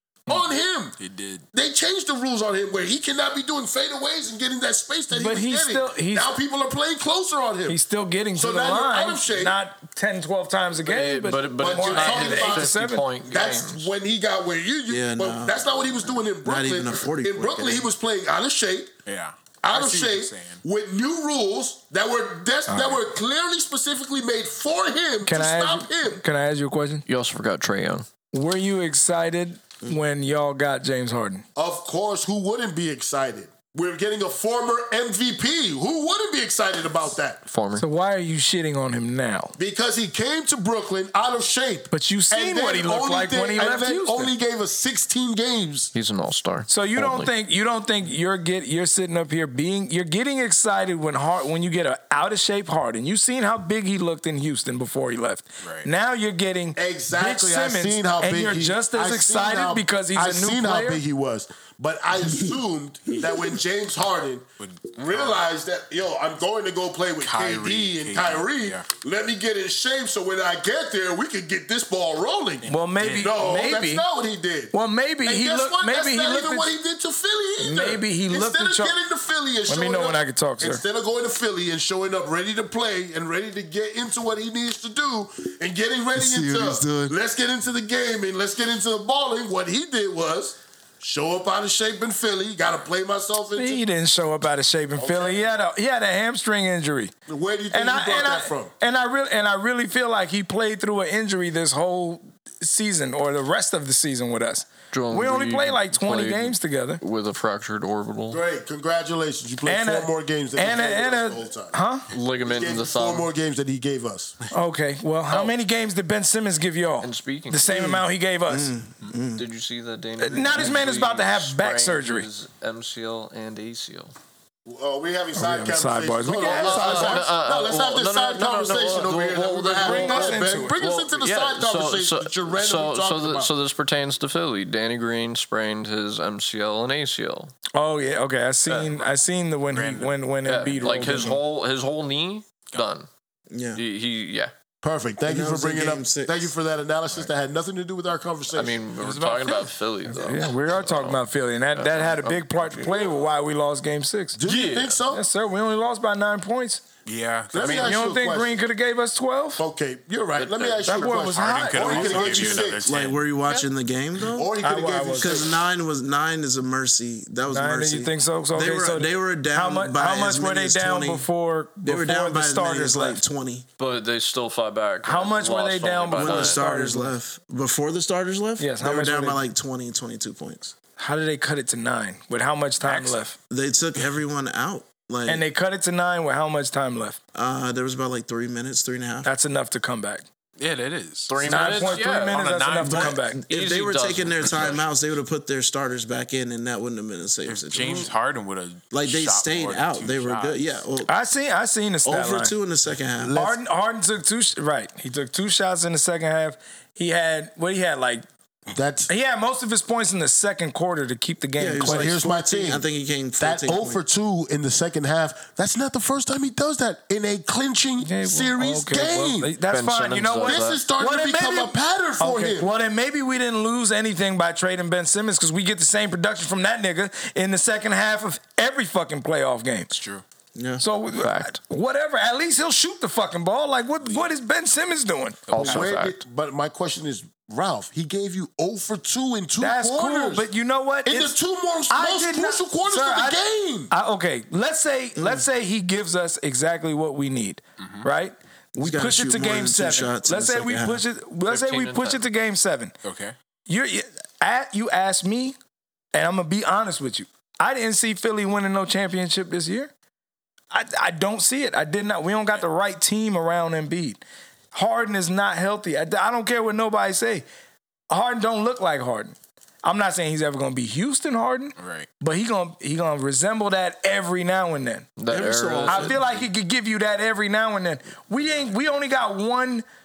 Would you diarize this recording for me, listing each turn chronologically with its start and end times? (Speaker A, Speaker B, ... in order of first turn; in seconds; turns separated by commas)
Speaker A: 0.3-1.0, Speaker B: 1.0-1.4, Speaker A: 1.5-7.8, Speaker C: 5.1-6.3, Speaker C: 7.7-13.1, Speaker A: 8.3-9.6, Speaker D: 10.8-13.9, Speaker A: 11.6-18.9, Speaker E: 14.9-15.7, Speaker E: 16.4-17.9, Speaker B: 19.1-20.6, Speaker A: 19.6-26.2, Speaker C: 22.7-23.0, Speaker C: 25.2-27.0, Speaker D: 27.1-28.1, Speaker C: 28.3-31.4, Speaker A: 31.6-37.4, Speaker D: 37.5-37.8, Speaker C: 37.8-39.5, Speaker A: 39.6-45.9, Speaker C: 41.9-44.3, Speaker D: 45.9-47.3, Speaker C: 46.7-61.0, Speaker B: 55.6-55.9, Speaker A: 56.8-93.8, Speaker B: 64.6-65.4, Speaker B: 67.2-68.9, Speaker B: 72.6-73.3, Speaker C: 72.7-74.0, Speaker C: 74.7-76.7, Speaker C: 77.6-79.0, Speaker C: 79.7-80.8, Speaker E: 86.1-87.1, Speaker C: 93.6-97.1, Speaker A: 95.0-95.5, Speaker A: 97.3-98.7, Speaker C: 97.7-107.0, Speaker D: 104.9-108.4, Speaker A: 108.3-111.7, Speaker C: 109.6-112.0, Speaker D: 112.1-113.3, Speaker A: 112.4-114.3, Speaker C: 114.5-118.7, Speaker D: 117.0-118.0, Speaker E: 117.7-119.4, Speaker D: 119.3-124.1, Speaker C: 120.2-122.3, Speaker A: 124.7-133.5, Speaker C: 125.3-127.3, Speaker D: 126.4-137.5, Speaker C: 129.8-130.8, Speaker C: 137.7-141.4, Speaker D: 138.7-138.9, Speaker B: 139.7-140.1, Speaker D: 140.4-143.1, Speaker E: 143.5-143.8, Speaker D: 143.7-144.5, Speaker A: 144.8-148.8, Speaker E: 145.3-146.3, Speaker D: 148.5-151.2, Speaker B: 149.0-149.7, Speaker C: 150.1-154.4, Speaker D: 151.7-153.1, Speaker A: 154.3-155.2, Speaker D: 154.4-155.0, Speaker C: 155.1-156.8, Speaker B: 157.1-158.0, Speaker A: 157.5-158.6, Speaker C: 157.5-159.6, Speaker A: 159.6-162.8, Speaker D: 160.4-161.2, Speaker C: 160.8-162.3, Speaker B: 161.2-163.2, Speaker E: 161.8-164.5, Speaker A: 164.3-165.6, Speaker C: 164.6-165.4, Speaker E: 165.2-171.3, Speaker C: 167.5-173.2, Speaker E: 171.8-173.7, Speaker D: 173.8-176.6, Speaker C: 175.0-177.1, Speaker E: 176.2-180.7, Speaker C: 178.6-179.4, Speaker C: 181.0-183.3, Speaker B: 182.8-183.3, Speaker E: 183.5-185.4, Speaker C: 185.2-187.2, Speaker E: 187.3-189.3, Speaker C: 189.2-190.2, Speaker B: 190.6-193.3, Speaker D: 191.3-192.4, Speaker C: 191.4-193.4, Speaker E: 192.8-198.1, Speaker D: 193.5-194.8, Speaker B: 194.4-194.8, Speaker B: 197.4-200.8, Speaker E: 198.9-201.1, Speaker C: 201.1-202.5, Speaker E: 202.0-203.3, Speaker A: 203.2-203.6, Speaker C: 203.3-208.2, Speaker A: 208.7-209.1, Speaker C: 209.1-212.1, Speaker E: 211.6-214.0, Speaker A: 211.8-212.9, Speaker A: 213.4-219.5, Speaker C: 218.0-229.9, Speaker D: 219.7-220.8, Speaker A: 220.4-222.7, Speaker B: 229.9-230.2, Speaker E: 230.5-230.8, Speaker C: 230.8-235.4, Speaker D: 231.2-231.5, Speaker B: 235.5-235.9, Speaker D: 235.5-236.2, Speaker A: 235.6-240.5, Speaker C: 239.6-241.4, Speaker A: 241.0-243.9, Speaker C: 241.9-252.9, Speaker E: 245.2-245.4, Speaker B: 247.8-248.1, Speaker E: 248.8-251.0, Speaker D: 251.5-252.2, Speaker B: 253.0-253.3, Speaker C: 253.7-255.6, Speaker C: 256.1-259.9, Speaker C: 260.7-264.2, Speaker C: 264.7-267.4, Speaker C: 268.1-275.1, Speaker B: 271.8-272.1, Speaker D: 275.2-276.2, Speaker E: 275.3-276.2, Speaker C: 275.9-279.9